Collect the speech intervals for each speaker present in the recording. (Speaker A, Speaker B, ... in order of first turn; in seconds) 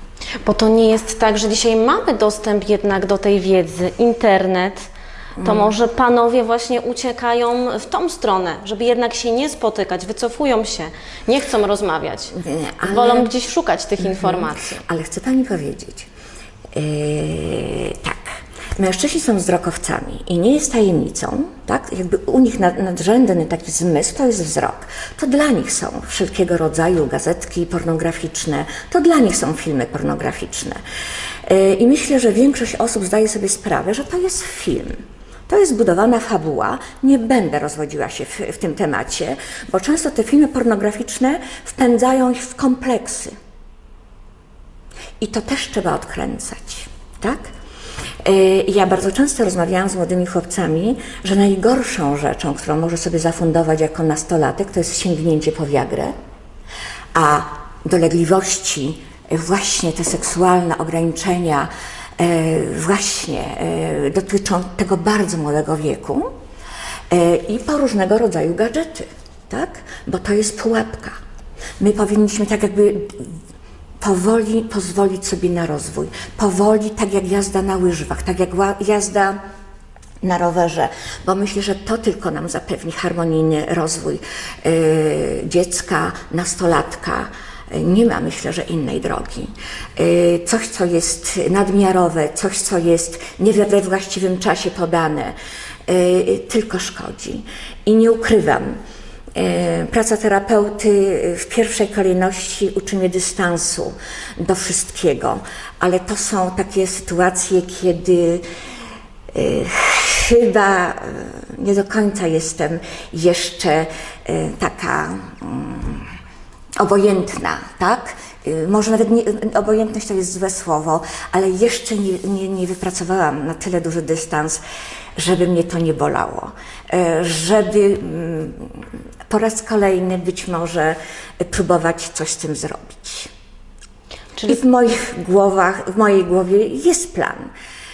Speaker A: 0.4-4.9, 5.4-12.3, 13.0-14.8
Speaker B: 5.4-5.7, 12.3-13.3, 14.0-16.1, 16.7-30.8, 31.4-35.0, 35.5-43.3, 45.2-47.5, 48.2-56.1, 57.1-66.3, 67.1-71.1, 71.8-73.4, 74.0-79.4, 80.2-95.3, 95.9-98.8, 99.3-108.4, 109.3-116.1, 116.8-124.6, 125.2-133.3, 134.4-137.5